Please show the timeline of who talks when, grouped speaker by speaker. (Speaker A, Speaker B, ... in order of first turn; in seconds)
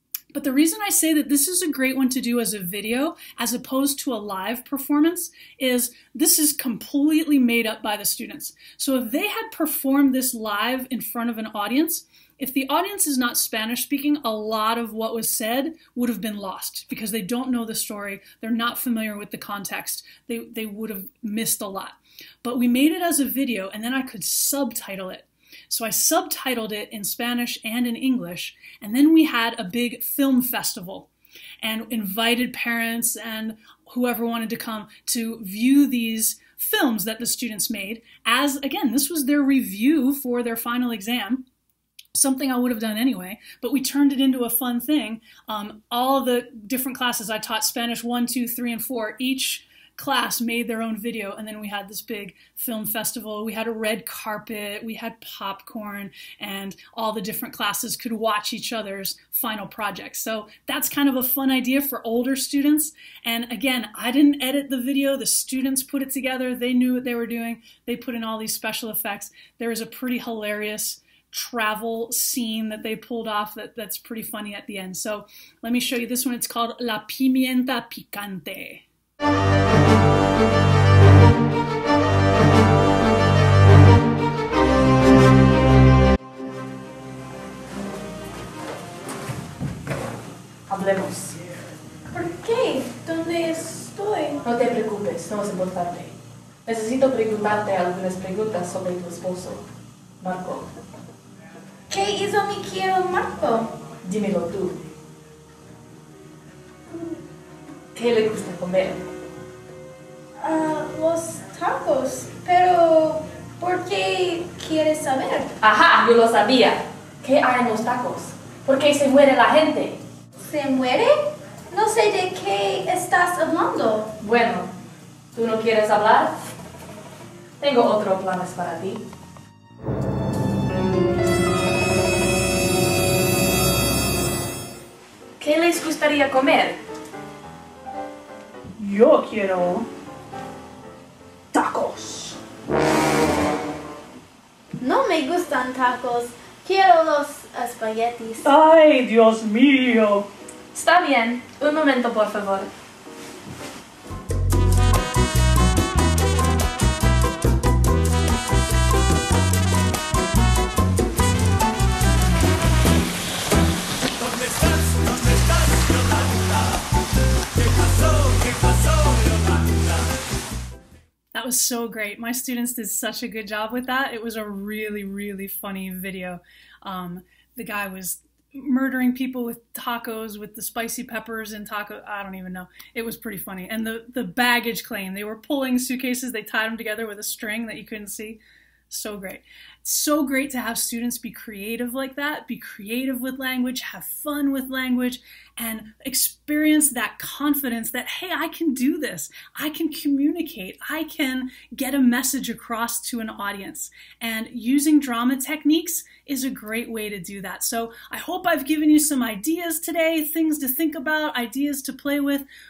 Speaker A: 0.3-31.1, 31.6-41.5, 42.1-78.8, 138.8-139.9, 141.5-142.4, 148.4-150.3, 171.3-212.4
Speaker B: 90.7-91.5, 94.5-96.1, 96.7-99.6, 100.2-100.7, 104.0-104.8, 108.0-109.0, 115.6-120.0, 124.2-124.7, 125.3-126.4, 127.6-129.0, 135.4-136.8, 150.7-152.7
Speaker C: 92.1-94.4, 101.9-103.7, 110.4-115.5, 120.4-124.1, 144.8-148.5